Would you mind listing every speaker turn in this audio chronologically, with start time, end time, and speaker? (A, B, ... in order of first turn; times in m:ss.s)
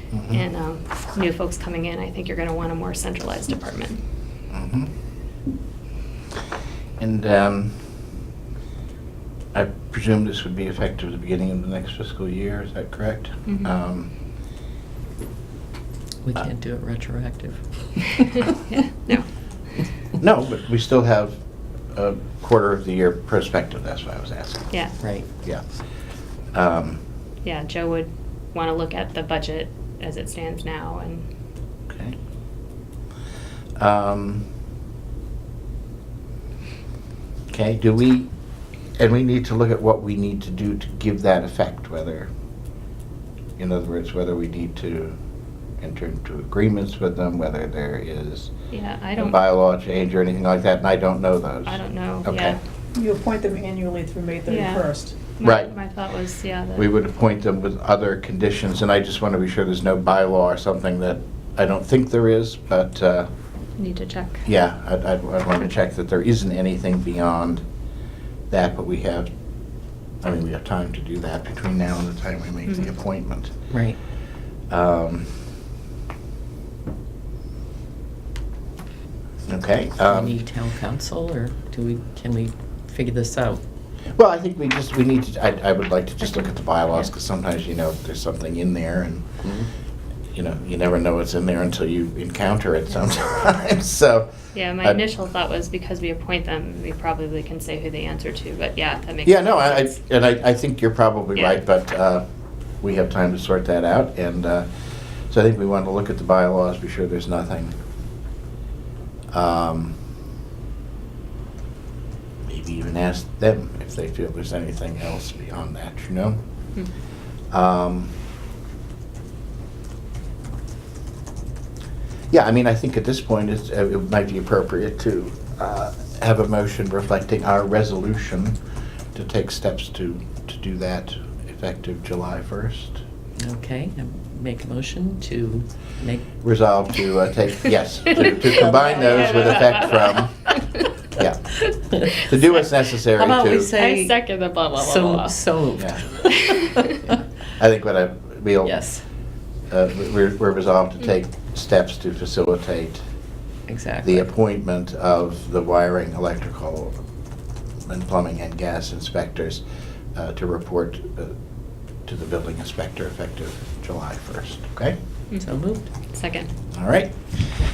0:00.1-0:00.4 A
0:00.3-0:04.0 B
0:04.5-0:04.9 A
0:07.0-0:07.8 A
0:09.5-0:14.1 A
0:13.5-0:13.7 B
0:16.2-0:18.4 C
0:18.7-0:19.2 B
0:20.2-0:21.4 A
0:21.9-0:24.8 A
0:25.0-0:25.3 C
0:26.5-0:27.0 A
0:27.4-0:31.3 B
0:31.9-0:32.2 A
0:33.8-0:34.5 A
0:37.5-0:38.3 A
0:39.0-0:42.3 A
0:43.6-0:45.2 A
0:45.8-0:48.5 A
0:48.7-0:49.4 B
0:49.2-0:52.6 A
0:51.7-0:52.6 B
0:52.9-0:55.2 D
0:54.5-0:56.9 B
0:55.4-0:55.7 A
0:56.8-1:03.3 A
1:03.8-1:04.4 B
1:04.5-1:07.6 A
1:08.5-1:09.3 A
1:10.2-1:13.5 A
1:13.7-1:14.0 C
1:14.7-1:15.4 A
1:19.5-1:20.4 A
1:20.1-1:23.6 C
1:24.2-1:29.3 A
1:29.4-1:29.7 C
1:30.3-1:35.0 A
1:34.5-1:40.0 B
1:39.3-1:42.2 A
1:42.8-1:44.7 A
1:45.3-1:47.8 A
1:49.3-1:50.0 A
1:52.4-1:56.4 A
1:57.5-1:58.1 A
2:02.3-2:08.6 A
2:09.1-2:13.0 A
2:13.4-2:16.4 C
2:16.4-2:20.3 A
2:18.4-2:20.8 B
2:18.5-2:19.3 D
2:21.2-2:21.6 A
2:21.7-2:22.2 C
2:22.2-2:23.7 A
2:23.1-2:27.0 C
2:23.7-2:25.4 B
2:25.8-2:26.0 A
2:26.4-2:27.0 B
2:27.0-2:28.8 A
2:28.6-2:29.0 C
2:29.7-2:33.0 A
2:33.7-2:34.2 C
2:34.0-2:37.0 A
2:37.9-2:39.6 A
2:40.2-2:41.3 A
2:42.1-2:45.0 A
2:45.4-2:45.9 C
2:46.1-2:46.5 B
2:46.7-2:47.2 A